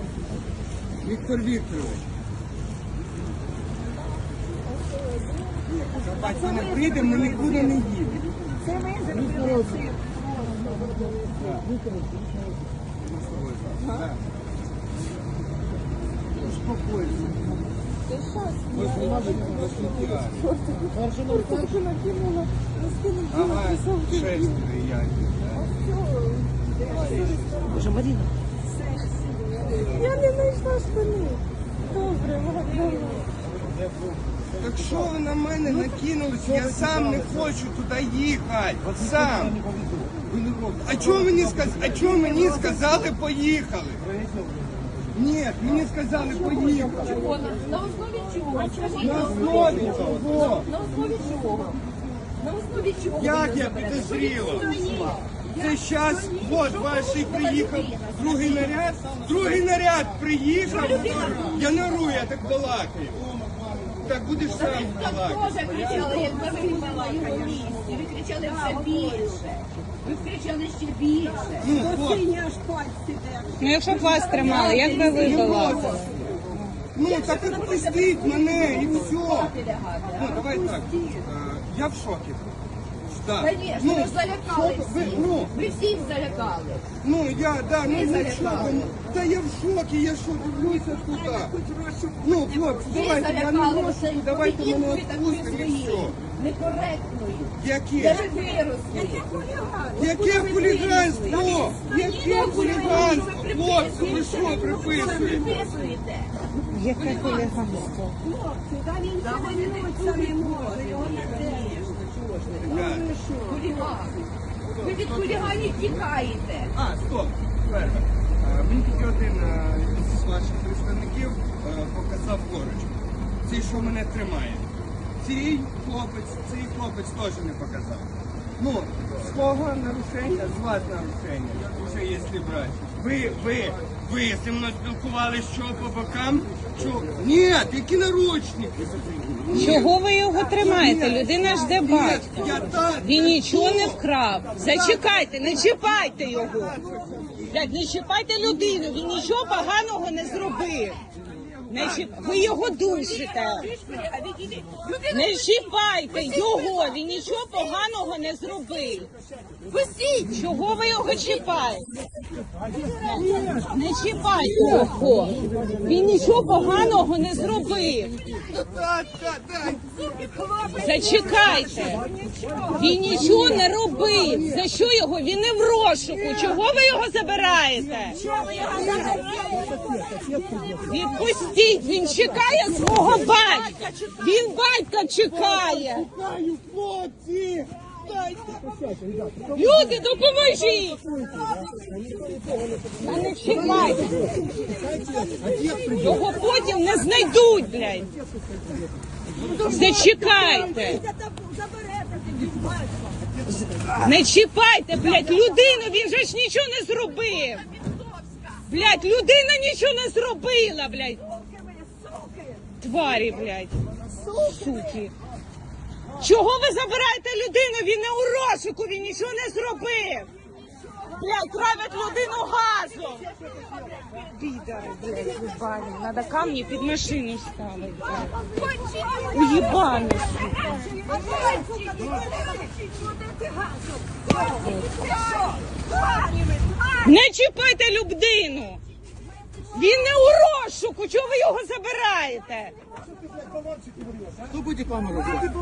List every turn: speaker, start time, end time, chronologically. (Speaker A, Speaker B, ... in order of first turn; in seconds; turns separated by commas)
Speaker A: 1.0-2.1, Speaker B: 4.9-11.5, Speaker A: 5.7-8.2, Speaker A: 11.4-11.7, Speaker A: 13.0-14.2, Speaker A: 16.4-17.6, Speaker B: 18.1-24.6, Speaker A: 18.7-20.6, Speaker A: 23.3-25.7, Speaker B: 25.6-27.8, Speaker A: 26.9-27.6, Speaker C: 27.7-28.2, Speaker B: 28.6-31.4, Speaker C: 29.9-31.4, Speaker C: 31.9-33.3, Speaker A: 34.5-39.6, Speaker A: 40.2-44.1, Speaker A: 45.1-47.2, Speaker B: 46.2-47.8, Speaker D: 46.9-55.5, Speaker B: 48.4-51.5, Speaker A: 49.0-50.7, Speaker A: 53.1-54.9, Speaker B: 54.4-56.6, Speaker A: 55.5-63.3, Speaker D: 56.6-58.8, Speaker D: 60.7-61.7, Speaker A: 64.0-65.5, Speaker D: 64.5-71.9, Speaker B: 65.8-69.3, Speaker B: 71.3-76.4, Speaker A: 71.6-72.3, Speaker C: 73.6-75.9, Speaker D: 74.0-76.4, Speaker A: 75.1-76.2, Speaker A: 76.9-79.5, Speaker D: 77.0-80.5, Speaker A: 80.2-82.5, Speaker B: 80.2-81.2, Speaker A: 83.1-85.5, Speaker D: 83.4-86.9, Speaker A: 87.0-91.5, Speaker D: 87.9-88.9, Speaker B: 90.4-93.0, Speaker A: 92.2-96.2, Speaker D: 92.9-99.3, Speaker A: 97.6-98.2, Speaker B: 98.2-100.1, Speaker A: 100.0-105.5, Speaker D: 100.0-106.3, Speaker B: 101.3-105.9, Speaker C: 106.7-108.2, Speaker B: 107.0-107.5, Speaker B: 108.2-111.8, Speaker D: 109.2-112.9, Speaker A: 111.0-111.9, Speaker A: 112.6-113.1, Speaker B: 112.6-114.3, Speaker D: 113.5-114.2, Speaker A: 114.7-116.0, Speaker D: 114.8-116.8, Speaker A: 116.7-139.9, Speaker C: 139.5-146.8, Speaker A: 140.6-144.0, Speaker A: 144.6-145.1, Speaker A: 146.1-147.4, Speaker B: 147.0-147.4, Speaker C: 147.4-151.0, Speaker A: 151.3-152.6, Speaker C: 151.7-153.7, Speaker D: 152.7-157.8, Speaker C: 155.1-159.1, Speaker D: 159.6-160.4, Speaker C: 160.3-161.9, Speaker B: 162.7-163.7, Speaker D: 162.9-163.4, Speaker C: 163.1-168.2, Speaker A: 168.3-169.9, Speaker B: 169.9-173.7, Speaker C: 170.7-172.1, Speaker C: 172.7-178.2, Speaker D: 178.2-179.8, Speaker B: 178.2-181.5, Speaker C: 178.8-179.2, Speaker C: 180.9-186.1, Speaker D: 183.3-184.2, Speaker A: 185.3-188.5, Speaker B: 188.5-189.4, Speaker C: 189.5-191.0, Speaker C: 193.0-194.3, Speaker B: 193.5-196.9, Speaker C: 195.8-198.1, Speaker B: 199.3-203.4, Speaker C: 199.5-201.1, Speaker C: 204.0-207.7, Speaker B: 205.1-205.8, Speaker D: 207.2-208.7, Speaker C: 208.7-211.2, Speaker B: 211.3-212.8, Speaker C: 212.8-213.8, Speaker B: 214.1-214.9, Speaker C: 214.3-215.1, Speaker C: 216.2-220.3, Speaker B: 220.7-222.0, Speaker C: 221.1-223.3, Speaker D: 222.9-225.6, Speaker C: 224.2-228.3, Speaker B: 228.1-237.1, Speaker D: 228.3-232.7, Speaker C: 229.3-230.8, Speaker D: 234.3-235.6, Speaker C: 237.0-238.8, Speaker C: 239.7-242.8